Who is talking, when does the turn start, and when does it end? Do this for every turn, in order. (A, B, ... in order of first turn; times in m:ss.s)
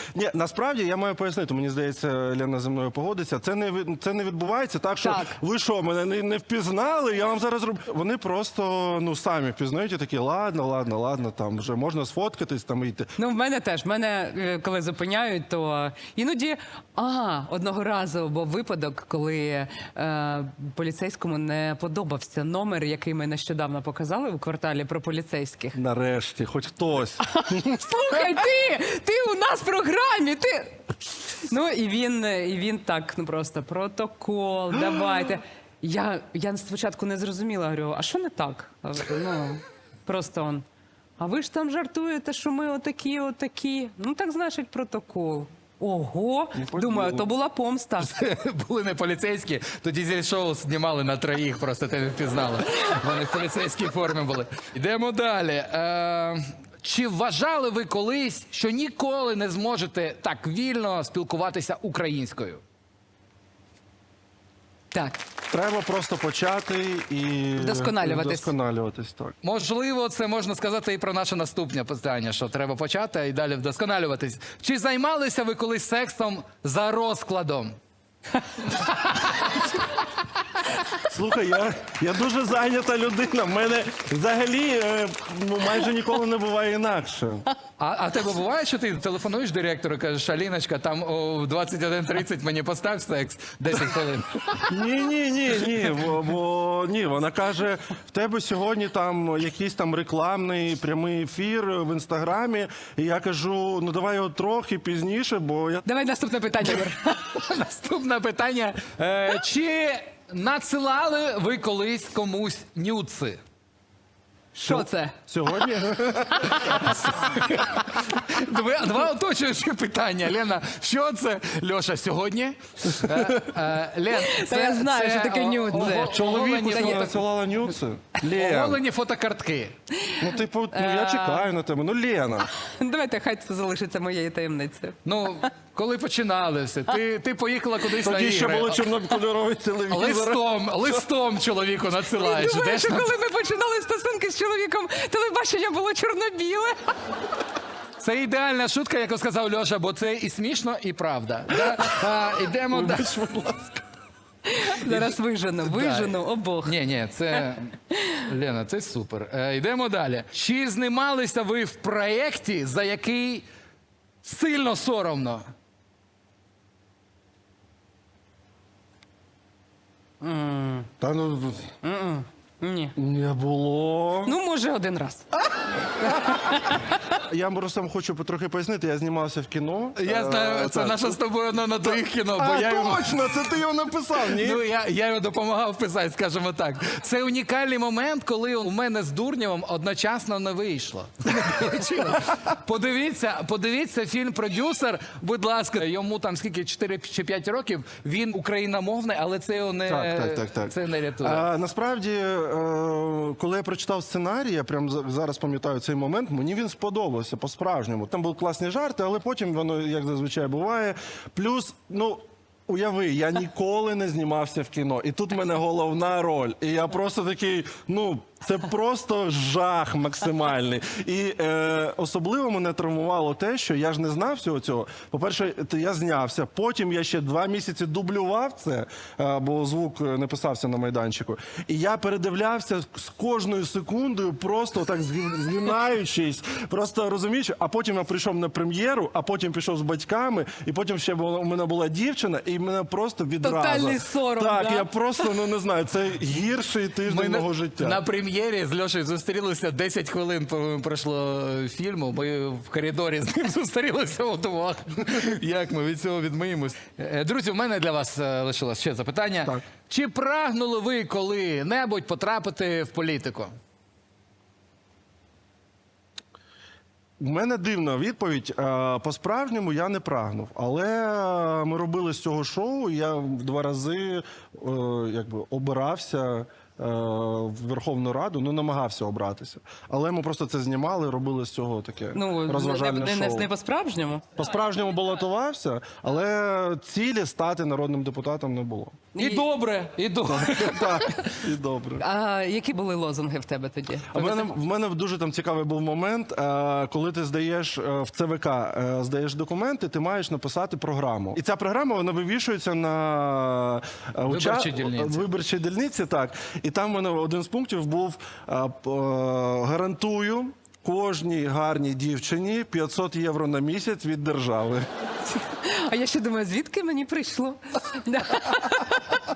0:00.1-0:13.1 A
0:05.0-0:05.4 B
0:13.2-0:25.8 B
0:25.7-0:27.8 A
0:27.3-0:40.6 B
0:41.2-0:48.1 B
0:46.5-0:47.3 A
0:48.0-1:02.6 C
1:04.9-1:05.2 B
1:05.5-1:09.4 A
1:07.6-1:08.5 B
1:09.4-1:17.8 C
1:18.7-1:19.6 C
1:21.0-1:27.5 A
1:27.8-1:34.8 C
1:34.7-1:45.9 A
1:45.9-1:47.3 B
1:47.2-1:53.4 C
1:54.5-1:55.2 B
1:54.6-1:56.8 A
1:56.5-2:07.2 C
2:04.1-2:07.2 B
2:05.9-2:08.8 A
2:08.2-2:09.8 C
2:10.0-2:11.5 B
2:10.2-2:12.5 A
2:12.4-2:15.0 B
2:15.1-2:18.8 C
2:18.0-2:21.0 A
2:19.9-2:23.1 C
2:22.2-2:27.0 B
2:28.0-2:33.1 C
2:31.5-2:31.9 A
2:32.7-2:33.8 A
2:34.5-2:36.8 B
2:34.7-2:43.5 C
2:44.2-2:45.5 C
2:50.2-2:50.9 B
2:51.0-2:51.7 A
2:51.8-2:53.0 B
2:53.0-2:54.4 A
2:54.3-2:55.3 B
2:56.1-2:56.4 A
2:56.3-2:57.0 B
2:57.2-3:01.2 A
3:00.0-3:03.4 C
3:01.8-3:04.6 A
3:04.3-3:21.5 C
3:19.9-4:08.0 A
4:03.4-4:05.2 B
4:07.1-4:23.5 C
4:27.2-4:43.5 A
4:42.1-4:44.2 B
4:44.4-4:49.1 A
4:49.1-4:49.5 B
4:49.2-4:51.3 C
4:50.2-4:52.0 A
4:52.0-4:54.4 B
4:54.1-5:14.9 A
5:04.3-5:05.2 C
5:15.3-5:19.3 B